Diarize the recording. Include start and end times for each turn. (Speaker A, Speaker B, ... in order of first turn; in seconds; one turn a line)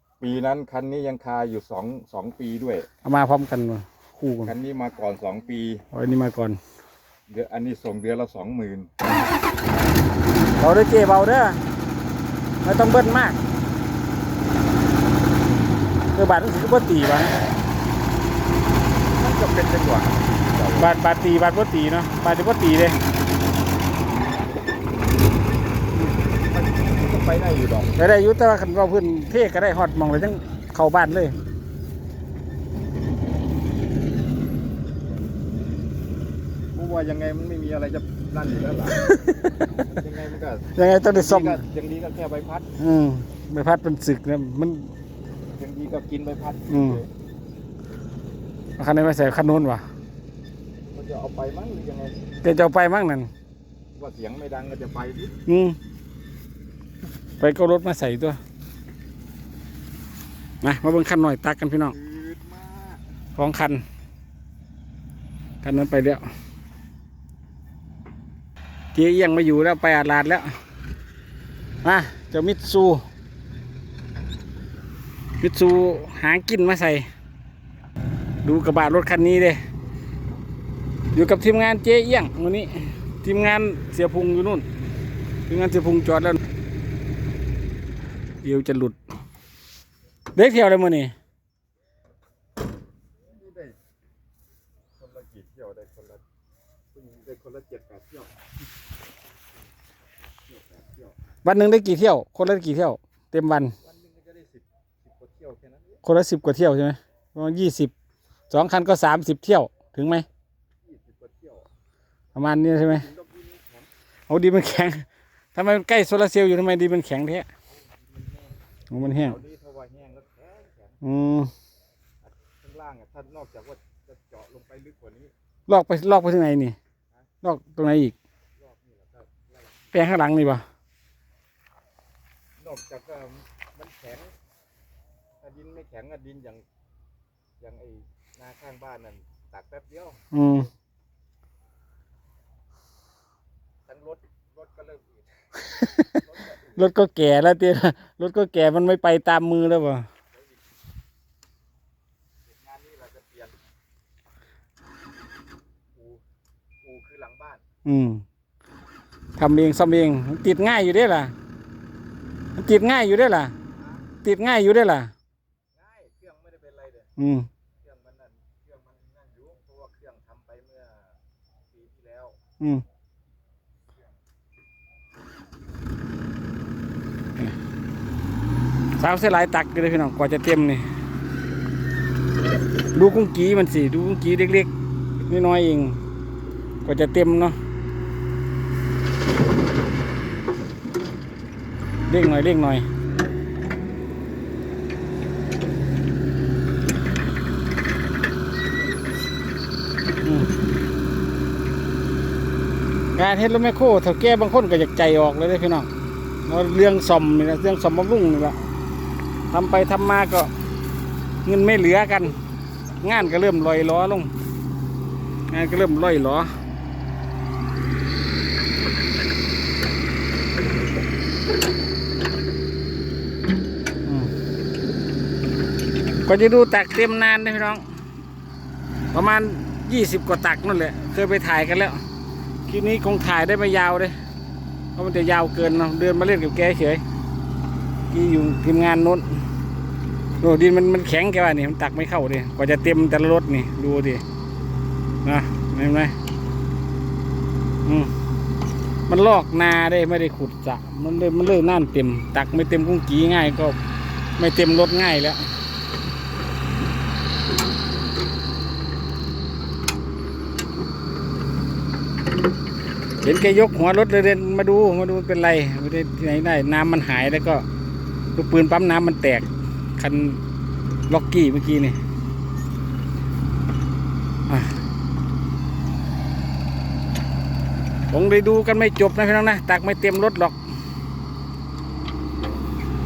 Speaker A: 0.2-2.9
Speaker B: 3.0-4.5
Speaker A: 4.4-5.8
Speaker B: 5.9-6.6
Speaker A: 7.3-8.9
Speaker B: 10.6-11.6
Speaker B: 12.6-13.4
Speaker B: 16.1-17.4
Speaker A: 19.1-20.9
Speaker B: 20.7-23.0
Speaker A: 26.2-28.0
Speaker B: 27.9-31.4
Speaker A: 36.7-42.7
Speaker B: 40.8-41.6
Speaker B: 42.8-44.9
Speaker A: 45.5-47.1
Speaker B: 46.7-47.0
Speaker B: 48.8-49.8
Speaker A: 50.9-52.1
Speaker B: 52.4-53.3
Speaker A: 54.0-55.3
Speaker B: 55.5-55.8
Speaker B: 57.4-58.4
Speaker B: 60.6-61.9
Speaker A: 61.9-63.0
Speaker B: 63.4-63.8
Speaker B: 65.6-66.3
Speaker B: 68.9-70.6
Speaker B: 71.8-73.0
Speaker B: 75.4-77.1
Speaker B: 78.4-79.6
Speaker B: 81.1-84.7
Speaker B: 85.5-86.4
Speaker B: 88.4-89.0
Speaker B: 90.3-91.1
Speaker A: 93.2-93.8
Speaker A: 95.0-96.2
Speaker A: 96.9-98.3
Speaker A: 100.5-101.2
Speaker B: 101.4-103.7
Speaker A: 103.8-106.0
Speaker B: 106.0-107.9
Speaker B: 108.5-110.2
Speaker A: 110.8-111.7
Speaker B: 112.3-113.1
Speaker A: 112.8-113.9
Speaker B: 114.3-117.5
Speaker A: 117.8-121.0
Speaker B: 118.9-119.4
Speaker B: 121.0-121.5
Speaker A: 122.2-125.3
Speaker B: 125.7-126.8
Speaker B: 127.4-128.1
Speaker A: 128.6-130.0
Speaker B: 129.9-130.7
Speaker A: 132.6-134.3
Speaker A: 135.4-136.6
Speaker A: 137.6-140.2
Speaker B: 140.3-140.7
Speaker A: 143.8-145.4
Speaker B: 145.8-146.1
Speaker A: 146.1-146.9
Speaker B: 146.8-150.1
Speaker A: 150.3-150.6
Speaker A: 152.4-153.6
Speaker A: 155.9-156.2
Speaker A: 156.8-157.6
Speaker B: 157.8-158.2
Speaker B: 159.3-161.3
Speaker B: 162.6-163.5
Speaker A: 163.7-164.1
Speaker B: 164.2-165.1
Speaker A: 165.7-167.1
Speaker B: 167.2-167.5
Speaker A: 167.7-172.4
Speaker B: 179.0-180.8
Speaker B: 182.9-184.7
Speaker B: 185.3-186.0
Speaker B: 186.8-187.6
Speaker B: 192.1-192.8
Speaker B: 200.2-200.5
Speaker B: 203.1-205.9
Speaker B: 206.4-208.6
Speaker B: 209.5-210.5
Speaker B: 211.4-212.4
Speaker B: 213.0-214.3
Speaker B: 215.5-216.5
Speaker B: 224.1-224.3
Speaker B: 226.2-227.8
Speaker B: 229.1-232.0
Speaker B: 232.7-234.2
Speaker B: 234.9-237.0
Speaker B: 238.1-239.4
Speaker B: 240.4-244.2
Speaker B: 245.2-246.1
Speaker B: 247.8-248.1
Speaker B: 249.1-253.8
Speaker B: 254.4-255.5
Speaker B: 263.2-267.6
Speaker B: 268.3-270.4
Speaker B: 271.1-272.0
Speaker B: 274.5-274.7
Speaker B: 278.1-280.6